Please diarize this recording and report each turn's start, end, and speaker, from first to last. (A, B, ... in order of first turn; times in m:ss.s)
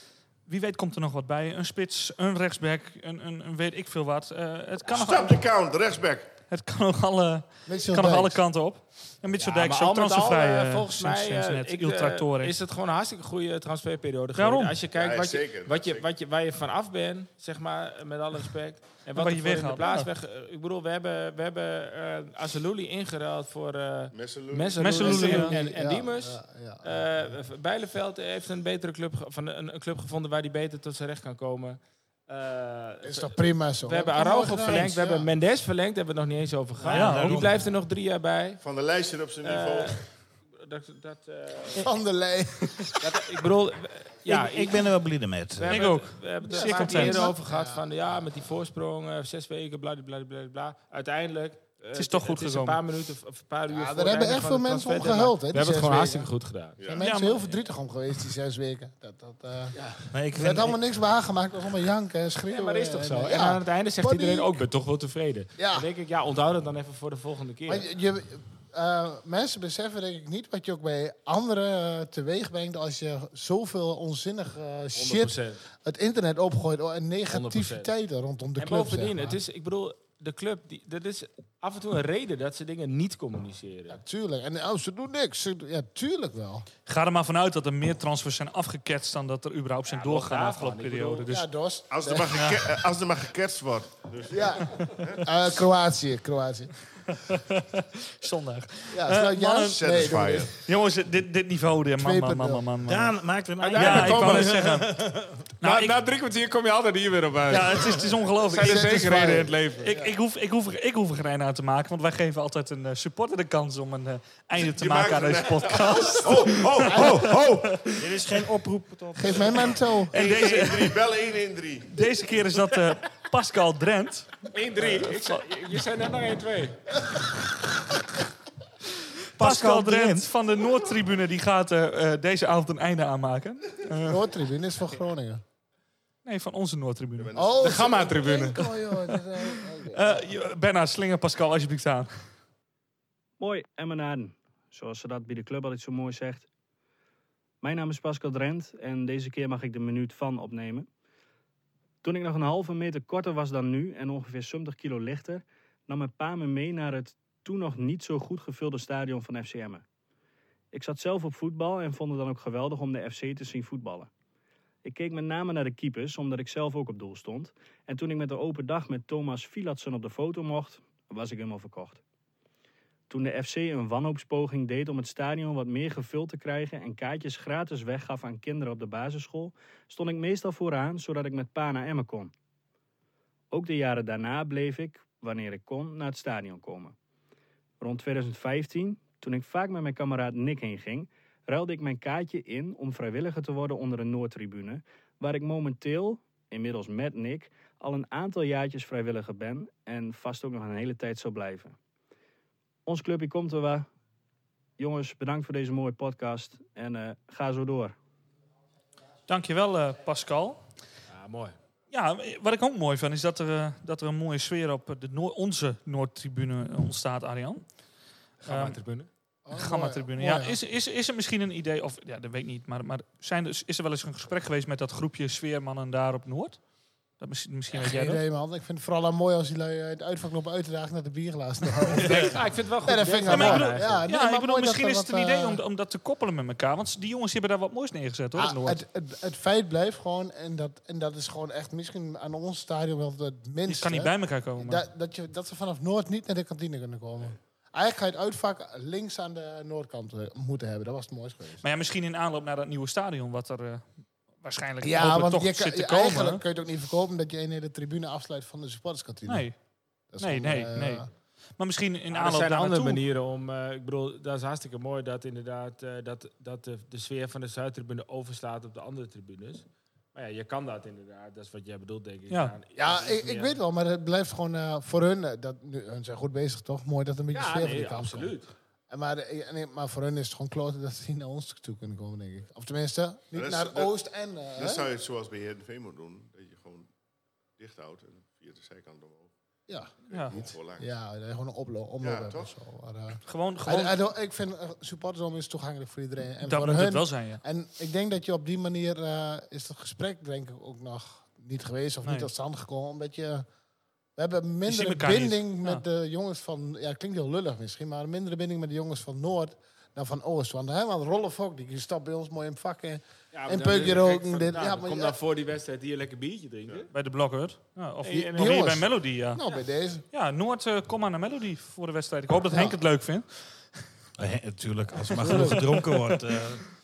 0:00.5-0:05.4 A
0:04.9-0:06.3 B
0:06.5-0:12.5 A
0:07.7-0:08.4 C
0:09.3-0:38.6 D
0:14.3-0:14.7 A
0:14.9-0:16.1 B
0:19.1-0:20.1 A
0:24.1-0:25.0 B
0:24.8-0:25.6 A
0:25.0-0:27.3 C
0:33.0-0:35.3 C
0:36.8-0:37.6 E
0:36.9-0:37.4 A
0:38.6-0:40.0 B
0:39.4-0:41.9 D
0:41.8-0:43.4 C
0:43.0-0:44.9 D
0:44.2-0:45.7 E
0:45.6-0:56.9 D
0:45.7-0:47.3 A
0:46.5-0:47.8 C
0:52.0-0:52.8 A
0:53.7-0:56.3 C
0:56.9-0:59.7 C
0:57.0-0:57.5 A
0:59.7-1:00.1 D
1:00.1-1:00.8 E
1:00.3-1:04.6 C
1:02.4-1:07.9 D
1:05.6-1:05.9 C
1:07.7-1:19.4 C
1:14.9-1:15.6 D
1:17.3-1:17.9 D
1:18.6-1:24.0 D
1:23.9-1:26.7 C
1:26.8-1:31.5 A
1:29.9-1:31.3 D
1:31.3-1:32.8 C
1:31.9-1:35.2 B
1:34.3-1:36.8 C
1:37.1-1:39.8 A
1:38.9-1:40.5 C
1:39.7-1:40.5 B
1:40.6-1:43.1 A
1:42.0-1:42.6 C
1:42.8-1:45.4 E
1:43.6-1:44.5 D
1:43.7-1:44.9 A
1:45.6-1:46.0 A
1:45.6-1:50.0 D
1:47.5-1:49.0 A
1:48.6-1:50.1 C
1:49.8-1:57.3 A
1:54.6-1:57.9 B
1:56.8-1:57.3 C
1:58.0-1:59.8 E
1:59.2-2:00.1 C
2:00.1-2:01.0 A
2:00.1-2:02.2 B
2:01.9-2:04.5 A
2:04.5-2:06.8 D
2:05.0-2:05.4 A
2:09.4-2:10.3 E
2:09.4-2:14.2 A
2:14.0-2:15.4 C
2:16.2-2:17.3 A
2:17.2-2:18.1 B
2:17.3-2:20.3 C
2:17.6-2:18.8 D
2:19.4-2:22.1 A
2:23.4-2:26.5 F
2:27.6-2:30.9 F
2:32.0-2:39.8 F
2:40.7-2:44.1 F
2:44.8-2:52.0 F
2:53.1-3:02.3 F
3:03.5-3:06.9 F
3:07.8-3:21.8 F
3:22.8-3:23.8 F
3:24.8-3:27.9 F
3:29.3-3:30.6 A
3:31.1-3:31.6 D
3:31.9-3:37.6 A
3:38.4-3:39.1 D
3:38.5-3:38.8 A
3:39.4-3:40.6 C
3:39.5-3:46.6 A
3:47.2-3:48.2 A
3:47.7-3:55.6 C
3:51.9-3:54.0 D
3:53.3-3:58.8 A
3:58.3-4:11.6 C
4:03.6-4:04.8 A
4:11.6-4:13.8 A
4:14.4-4:16.4 A
4:14.8-4:19.5 C
4:19.3-4:19.6 A
4:20.1-4:21.1 C
4:20.2-4:21.0 A
4:21.6-4:23.0 A
4:22.1-4:33.6 D
4:32.3-4:32.5 A
4:32.8-4:38.4 C
4:37.3-4:38.5 D
4:38.9-4:44.9 C
4:43.3-4:43.9 B
4:44.6-4:46.9 B
4:47.6-4:49.3 B
4:49.7-5:03.4 C
4:50.0-4:50.9 B
4:50.1-4:50.4 A
4:52.0-4:52.5 B
4:53.2-4:53.9 A
4:56.4-4:57.4 A
5:02.0-5:02.3 A
5:04.2-5:15.2 C
5:04.7-5:05.8 A
5:13.3-5:16.9 D
5:16.9-5:19.4 A
5:18.0-5:18.7 D
5:18.1-5:20.0 C
5:20.1-5:23.6 A
5:22.5-5:22.8 C
5:24.2-5:26.6 E
5:25.2-5:25.7 C
5:25.2-5:25.7 A